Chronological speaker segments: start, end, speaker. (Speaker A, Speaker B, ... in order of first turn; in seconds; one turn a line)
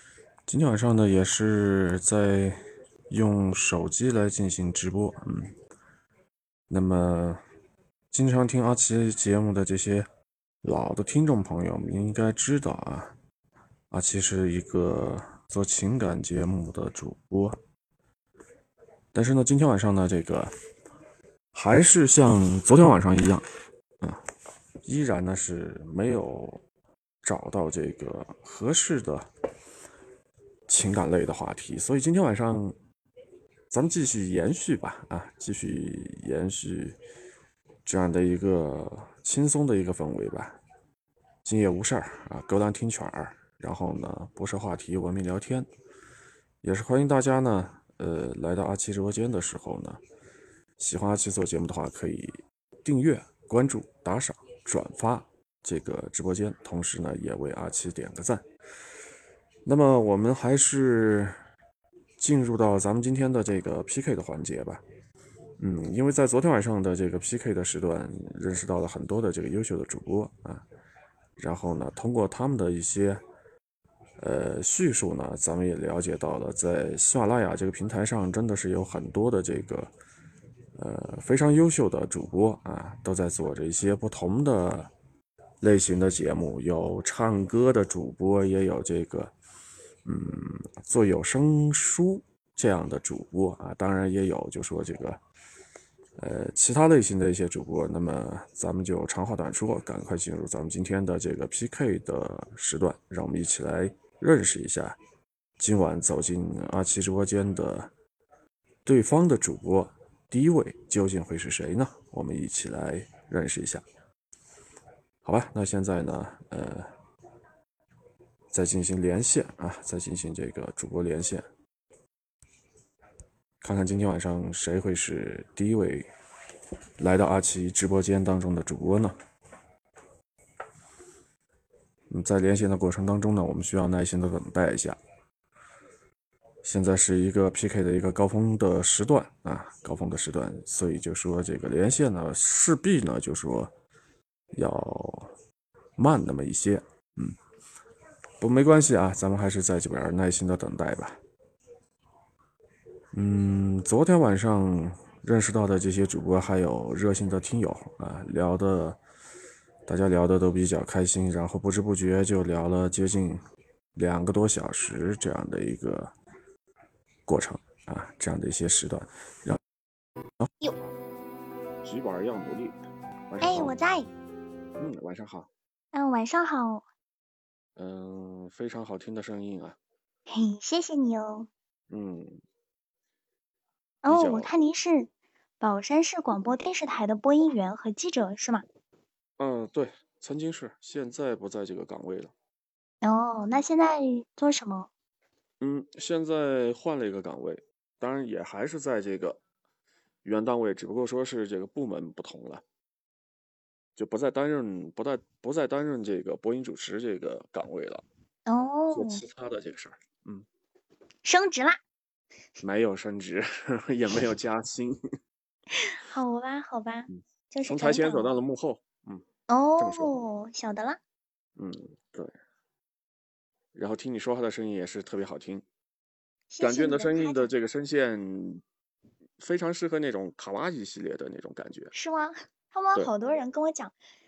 Speaker A: 0.5-5.5
Speaker A: 6.7-7.4
Speaker A: 8.1-10.1
Speaker A: 10.6-13.1
Speaker A: 13.9-17.6
Speaker A: 19.1-20.5
Speaker A: 21.5-23.5
Speaker A: 24.8-26.6
Speaker A: 27.2-29.3
Speaker A: 30.7-32.8
Speaker A: 33.7-37.0
Speaker A: 37.9-40.6
Speaker A: 41.4-45.7
Speaker A: 46.6-50.0
Speaker A: 50.8-58.4
Speaker A: 59.6-61.4
Speaker A: 62.2-64.8
Speaker A: 65.6-70.6
Speaker A: 71.4-73.2
Speaker A: 74.2-79.9
Speaker A: 80.8-84.9
Speaker A: 85.6-89.3
Speaker A: 90.1-95.2
Speaker A: 96.2-105.0
Speaker A: 105.6-107.9
Speaker A: 108.9-113.8
Speaker A: 115.2-116.9
Speaker A: 118.5-121.5
Speaker A: 123.6-126.1
Speaker A: 127.0-129.2
Speaker A: 132.1-135.0
Speaker A: 136.6-143.7
Speaker A: 144.5-145.3
Speaker A: 146.0-147.4
Speaker A: 148.4-151.2
Speaker A: 153.1-159.0
Speaker A: 159.9-163.4
Speaker A: 164.0-166.1
Speaker A: 167.3-169.6
Speaker A: 171.8-172.8
Speaker A: 173.3-173.8
Speaker B: 173.4-174.1
Speaker A: 174.8-175.5
Speaker B: 175.9-176.8
Speaker A: 177.8-179.8
Speaker B: 180.3-181.5
Speaker A: 181.9-182.4
Speaker B: 184.0-185.1
Speaker A: 184.1-184.5
Speaker B: 185.6-188.7
Speaker A: 189.4-192.3
Speaker B: 193.0-194.9
Speaker A: 195.6-199.4
Speaker A: 200.2-202.6
Speaker A: 204.0-208.0
Speaker B: 208.5-209.2
Speaker A: 208.9-210.4
Speaker B: 211.2-211.8
Speaker A: 212.6-215.0
Speaker B: 215.8-218.4
Speaker A: 217.1-219.2
Speaker B: 219.5-221.0
Speaker A: 219.8-220.1
Speaker A: 221.6-222.3
Speaker A: 223.8-225.6
Speaker B: 226.5-227.5
Speaker A: 226.6-228.6
Speaker A: 229.4-231.9
Speaker B: 231.9-233.9